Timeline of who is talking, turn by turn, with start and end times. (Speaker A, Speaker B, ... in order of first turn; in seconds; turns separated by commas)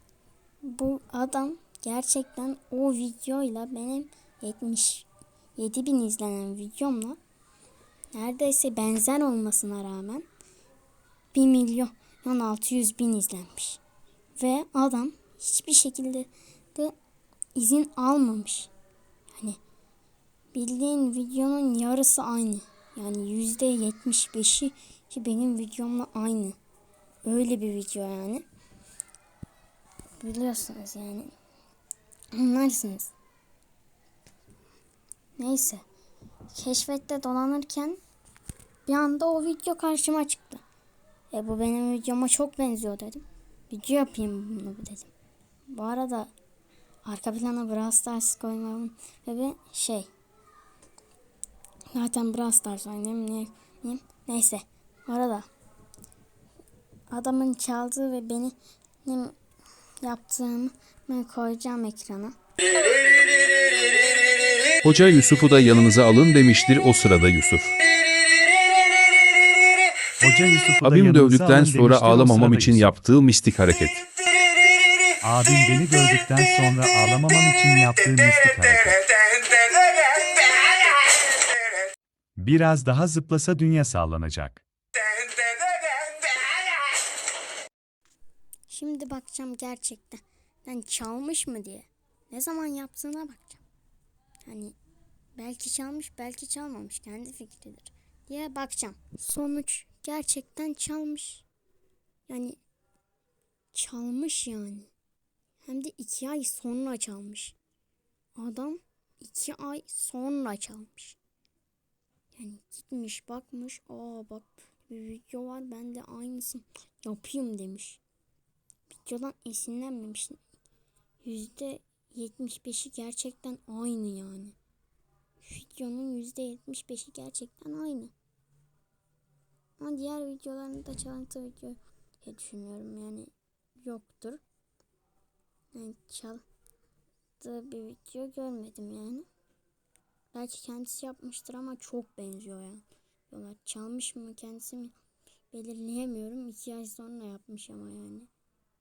Speaker A: 0.6-7.2, Speaker A: 8.1-10.3, Speaker A: 11.3-13.8, Speaker A: 14.4-16.9, Speaker A: 17.6-18.7, Speaker A: 20.5-26.6, Speaker A: 27.2-28.4, Speaker A: 30.2-31.3, Speaker A: 32.3-33.1, Speaker A: 35.4-35.8, Speaker A: 36.5-38.0, Speaker A: 38.9-40.6, Speaker A: 41.3-45.1, Speaker A: 45.7-46.3, Speaker A: 47.0-50.1, Speaker A: 51.9-55.5, Speaker A: 57.1-59.4, Speaker A: 60.0-62.4, Speaker B: 64.8-67.8, Speaker C: 70.2-72.9, Speaker B: 70.8-74.0, Speaker C: 75.2-79.0, Speaker C: 82.4-84.6, Speaker A: 88.7-93.6, Speaker A: 94.5-94.8, Speaker A: 95.4-101.5, Speaker A: 102.3-102.6, Speaker A: 103.7-104.9, Speaker A: 105.6-107.6, Speaker A: 108.3-111.2, Speaker A: 112.3-118.0, Speaker A: 118.9-120.4, Speaker A: 121.2-124.6, Speaker A: 125.4-128.1, Speaker A: 129.8-133.3, Speaker A: 133.8-134.4, Speaker A: 135.7-136.4, Speaker A: 137.4-139.3, Speaker A: 140.3-145.0, Speaker A: 145.5-148.3